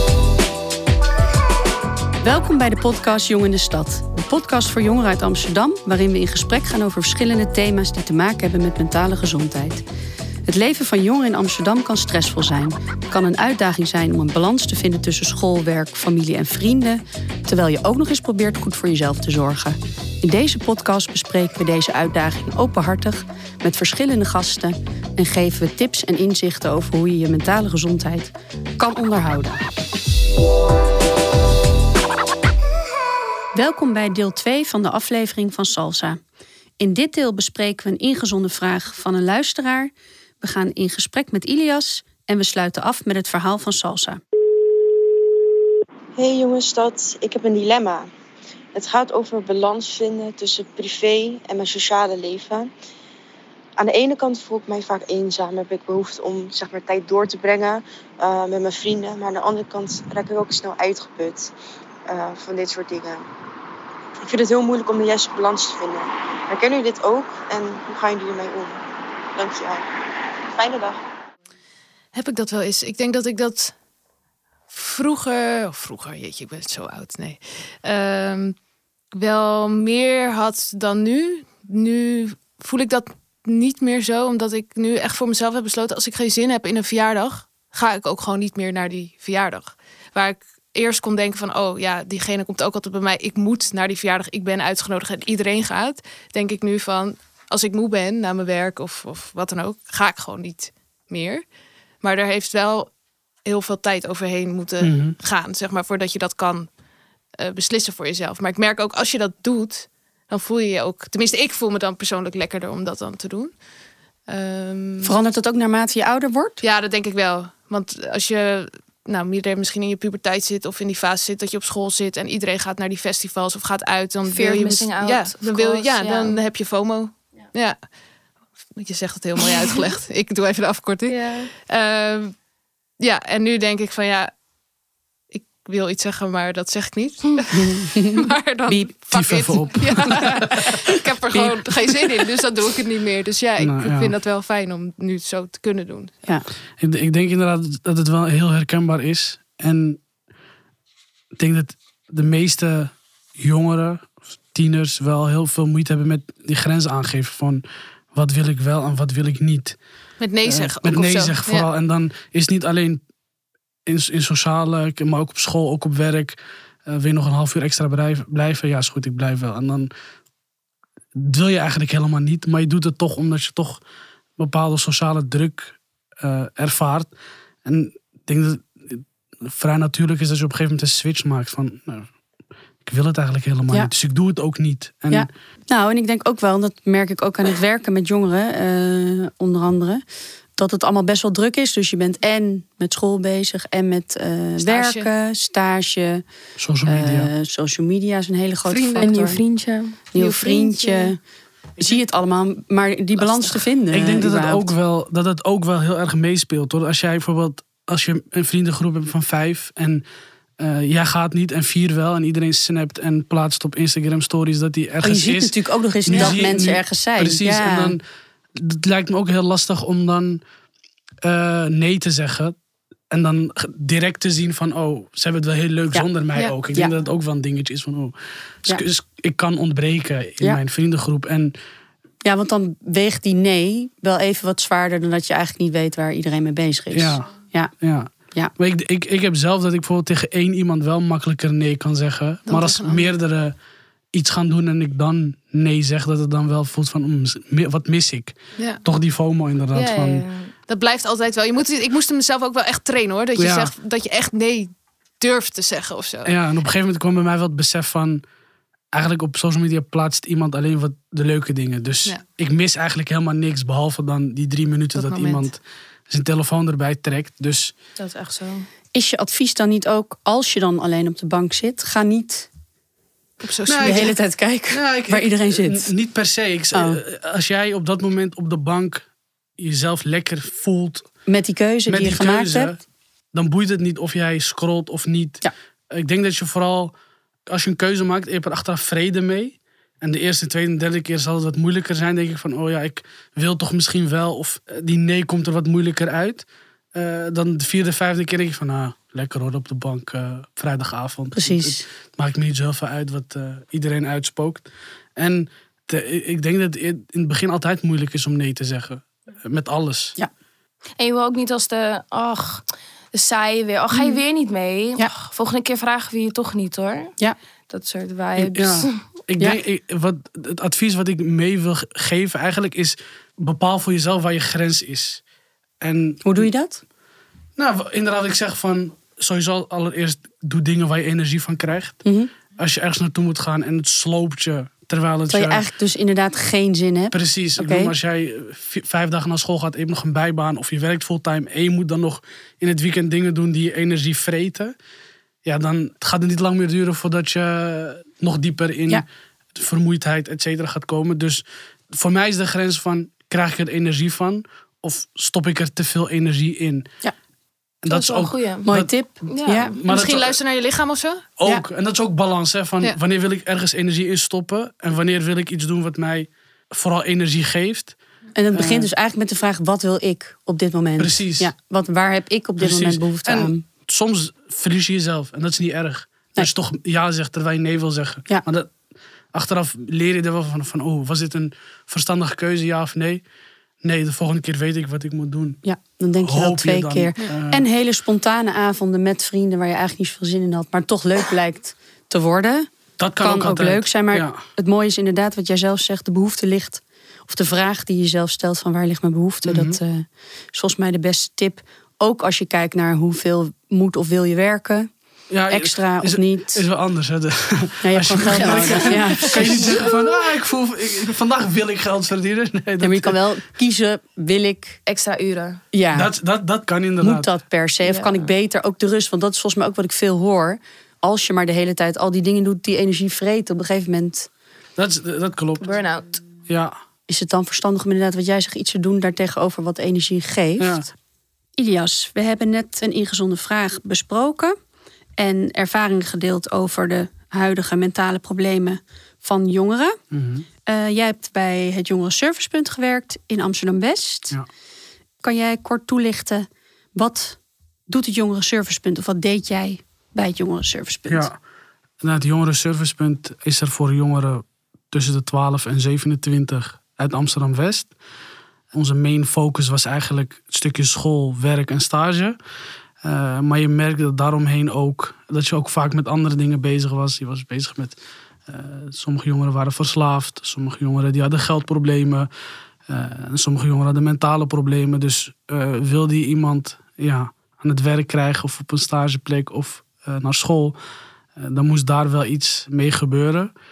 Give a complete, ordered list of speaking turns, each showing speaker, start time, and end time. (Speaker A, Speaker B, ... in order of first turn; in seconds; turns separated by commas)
Speaker A: 2.2-9.8, Speaker A: 10.5-29.6, Speaker A: 33.5-36.2, Speaker A: 36.8-44.2, Speaker B: 46.2-48.1, Speaker B: 48.7-52.7, Speaker B: 53.8-61.5, Speaker B: 62.1-63.3, Speaker B: 64.2-68.8, Speaker B: 69.4-69.8, Speaker B: 70.5-71.0, Speaker C: 72.1-73.7, Speaker C: 74.7-78.6, Speaker C: 79.1-101.5, Speaker C: 102.0-102.9, Speaker C: 103.4-106.7, Speaker D: 104.8-105.2, Speaker C: 107.4-113.6, Speaker C: 114.3-115.1, Speaker A: 115.0-116.6, Speaker C: 116.6-127.9, Speaker E: 124.3-126.4, Speaker C: 128.7-132.4, Speaker E: 131.1-131.5, Speaker C: 133.0-134.3, Speaker C: 135.3-146.2, Speaker A: 137.6-138.9, Speaker D: 139.1-140.5, Speaker A: 141.3-141.6, Speaker D: 143.6-144.1, Speaker D: 146.8-150.0, Speaker D: 151.4-159.8, Speaker C: 160.2-161.7, Speaker D: 160.4-163.0, Speaker D: 163.9-169.9, Speaker D: 171.2-173.8, Speaker D: 174.4-177.1, Speaker D: 177.7-182.1, Speaker D: 182.8-185.3, Speaker A: 185.1-190.0, Speaker A: 190.6-196.2, Speaker C: 194.6-195.1, Speaker D: 196.6-197.3, Speaker A: 196.9-199.4, Speaker C: 198.7-199.1, Speaker E: 199.0-200.0, Speaker A: 200.1-201.2, Speaker C: 200.2-201.2, Speaker A: 201.8-204.7, Speaker D: 203.9-210.1, Speaker D: 210.6-218.0, Speaker A: 215.0-218.0, Speaker D: 218.6-220.4, Speaker D: 221.2-222.6, Speaker D: 223.1-231.5, Speaker A: 232.2-237.7, Speaker D: 236.9-243.6, Speaker C: 242.5-243.1, Speaker D: 244.1-250.2, Speaker E: 249.8-250.5, Speaker C: 250.7-256.3, Speaker D: 253.4-253.7, Speaker D: 256.2-258.2, Speaker D: 258.9-267.7, Speaker C: 265.0-265.5, Speaker E: 268.0-268.7, Speaker A: 268.9-272.5, Speaker C: 273.4-274.2, Speaker D: 273.7-274.1, Speaker A: 273.8-275.9, Speaker D: 274.7-279.1, Speaker A: 276.7-277.0, Speaker D: 279.6-281.1, Speaker A: 281.3-282.7, Speaker D: 281.9-282.8, Speaker D: 283.3-286.9, Speaker D: 287.5-310.1, Speaker A: 301.3-301.9, Speaker E: 311.0-317.1, Speaker E: 317.7-319.0, Speaker D: 318.4-325.2, Speaker D: 325.8-326.5, Speaker A: 326.2-326.8, Speaker D: 327.6-332.1, Speaker A: 332.1-332.3, Speaker D: 332.6-335.6, Speaker A: 335.3-337.9, Speaker D: 337.1-344.7, Speaker D: 345.4-356.9, Speaker D: 357.8-358.9, Speaker E: 357.9-358.7, Speaker A: 358.7-359.8, Speaker E: 359.3-359.8, Speaker D: 359.7-360.4, Speaker C: 359.9-361.2, Speaker D: 361.4-368.0, Speaker A: 368.4-373.6, Speaker D: 368.5-368.9, Speaker D: 371.0-371.5, Speaker D: 372.6-378.7, Speaker D: 379.3-383.2, Speaker D: 383.8-385.6, Speaker A: 385.6-392.7, Speaker D: 386.2-387.6, Speaker D: 393.0-394.4, Speaker A: 393.2-404.9, Speaker D: 399.4-399.8, Speaker D: 405.3-413.2, Speaker A: 405.5-406.6, Speaker A: 407.8-409.9, Speaker C: 408.9-409.3, Speaker A: 412.8-414.8, Speaker E: 414.9-415.6, Speaker A: 415.7-416.1, Speaker D: 415.9-417.3, Speaker A: 417.0-424.3, Speaker E: 417.8-418.3, Speaker D: 424.8-425.8, Speaker E: 425.6-426.2, Speaker D: 426.5-426.8, Speaker A: 427.1-430.9, Speaker D: 430.6-430.9, Speaker A: 431.6-434.6, Speaker A: 435.2-440.0, Speaker D: 440.1-440.5, Speaker A: 440.7-444.4, Speaker A: 445.2-451.3, Speaker D: 451.1-451.4, Speaker D: 452.0-457.9, Speaker D: 458.7-462.4, Speaker D: 463.0-468.0, Speaker D: 468.5-472.3, Speaker D: 472.9-480.8, Speaker D: 481.4-483.5